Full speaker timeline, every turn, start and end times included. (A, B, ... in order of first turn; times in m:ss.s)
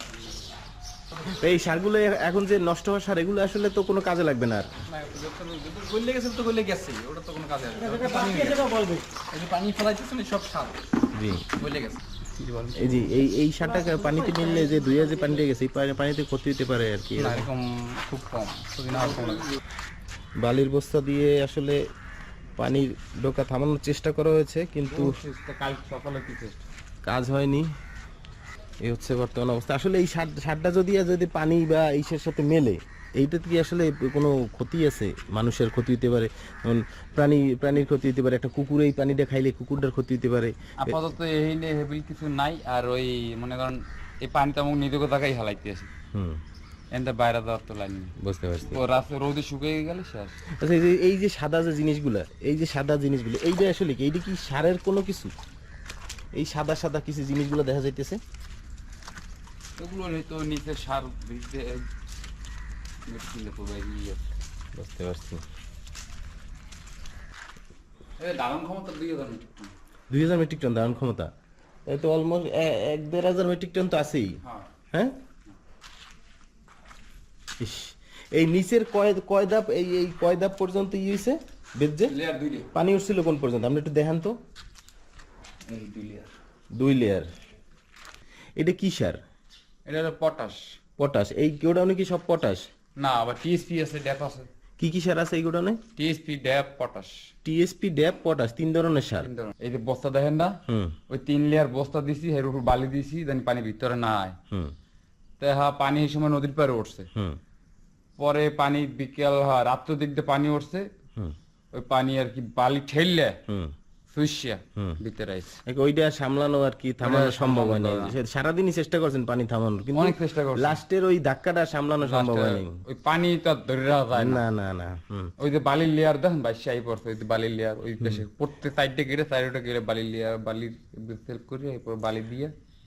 0:01.3-0:04.7 A
0:04.9-0:05.3 B
0:05.0-0:08.6 C
0:05.9-0:10.7 B
0:07.9-0:08.8 A
0:09.7-0:10.6 C
0:11.1-0:11.5 A
0:11.6-0:12.9 B
0:12.8-0:17.5 A
0:14.1-0:14.7 B
0:17.2-0:19.5 B
0:20.4-0:21.8 A
0:22.6-0:25.2 A
0:24.8-0:26.6 C
0:27.0-0:27.7 A
0:28.8-0:41.0 A
0:40.8-0:45.9 C
0:46.1-0:46.4 A
0:46.9-0:50.4 C
0:48.2-0:48.8 A
0:50.6-0:55.3 A
0:56.3-0:58.2 A
0:59.8-1:01.9 C
1:03.1-1:04.2 C
1:04.8-1:05.4 A
1:08.2-1:09.7 C
1:10.1-1:11.3 A
1:11.9-1:14.4 A
1:14.4-1:14.7 C
1:17.6-1:22.1 A
1:22.1-1:22.7 C
1:22.7-1:24.4 A
1:25.7-1:26.3 C
1:26.7-1:27.3 A
1:28.6-1:29.2 A
1:29.8-1:30.6 C
1:31.0-1:32.7 A
1:33.0-1:34.5 C
1:34.8-1:35.8 A
1:36.0-1:37.1 C
1:37.4-1:39.3 A
1:39.2-1:44.4 C
1:40.7-1:40.9 A
1:45.4-1:47.1 C
1:48.2-1:50.9 C
1:51.7-1:53.4 C
1:53.5-1:53.7 A
1:54.1-1:55.6 C
1:55.6-2:02.8 A
1:57.0-1:58.2 C
1:59.9-2:00.8 C
2:02.0-2:04.4 C
2:04.1-2:05.3 A
2:05.4-2:12.5 C